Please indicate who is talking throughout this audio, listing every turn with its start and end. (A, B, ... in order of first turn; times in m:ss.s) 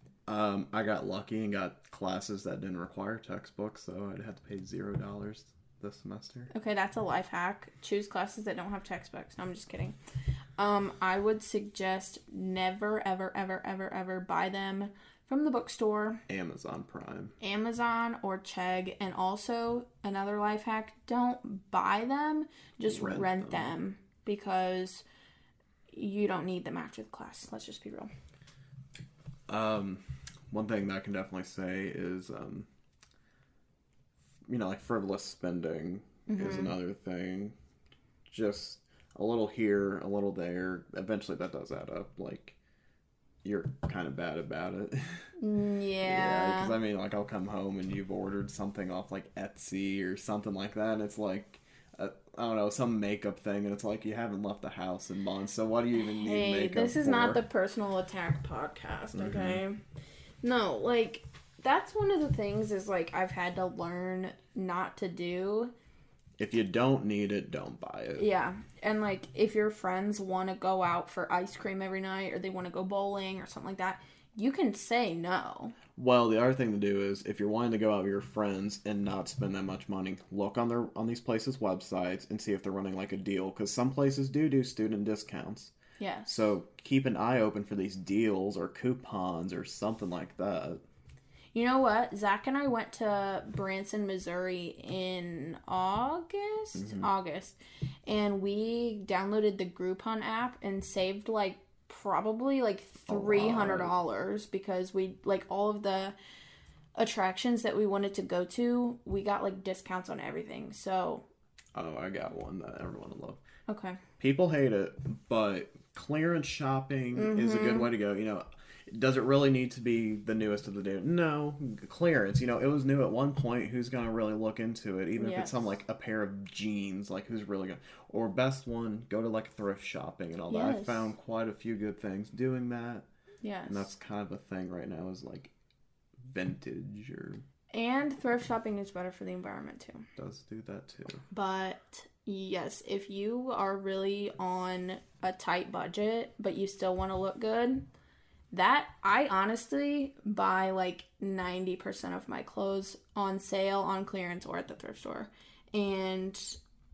0:00.3-0:06.5 A
0:06.5-0:10.0 B
0:10.6-0:16.2 B
0:16.3-0:17.4 A
0:17.4-0:25.0 B
0:22.8-0:23.7 A
0:25.9-0:28.1 B
0:29.5-0:32.7 A
0:34.5-0:37.6 A
0:36.3-0:36.7 B
0:38.3-0:42.6 A
0:43.4-0:45.3 A
0:45.4-0:46.8 B
0:46.0-0:57.4 A
0:56.0-0:59.8 B
0:59.1-0:59.6 A
1:00.4-1:05.7 B
1:06.4-1:08.2 A
1:08.2-1:15.8 B
1:16.0-1:25.7 A
1:26.0-1:26.4 B
1:26.2-1:30.8 A
1:31.5-1:46.2 B
1:36.8-1:37.1 A
1:43.1-1:43.9 A
1:46.9-1:51.2 B
1:51.7-1:53.4 A
1:53.7-1:54.0 B
1:54.2-2:13.0 A
1:57.1-1:57.9 B
2:05.2-2:05.7 B
2:10.5-2:11.1 B
2:13.4-2:13.9 B
2:13.6-2:15.5 A
2:16.2-2:17.4 A
2:17.7-2:20.0 B
2:20.2-2:21.2 A
2:21.3-2:27.8 B
2:28.5-2:36.6 B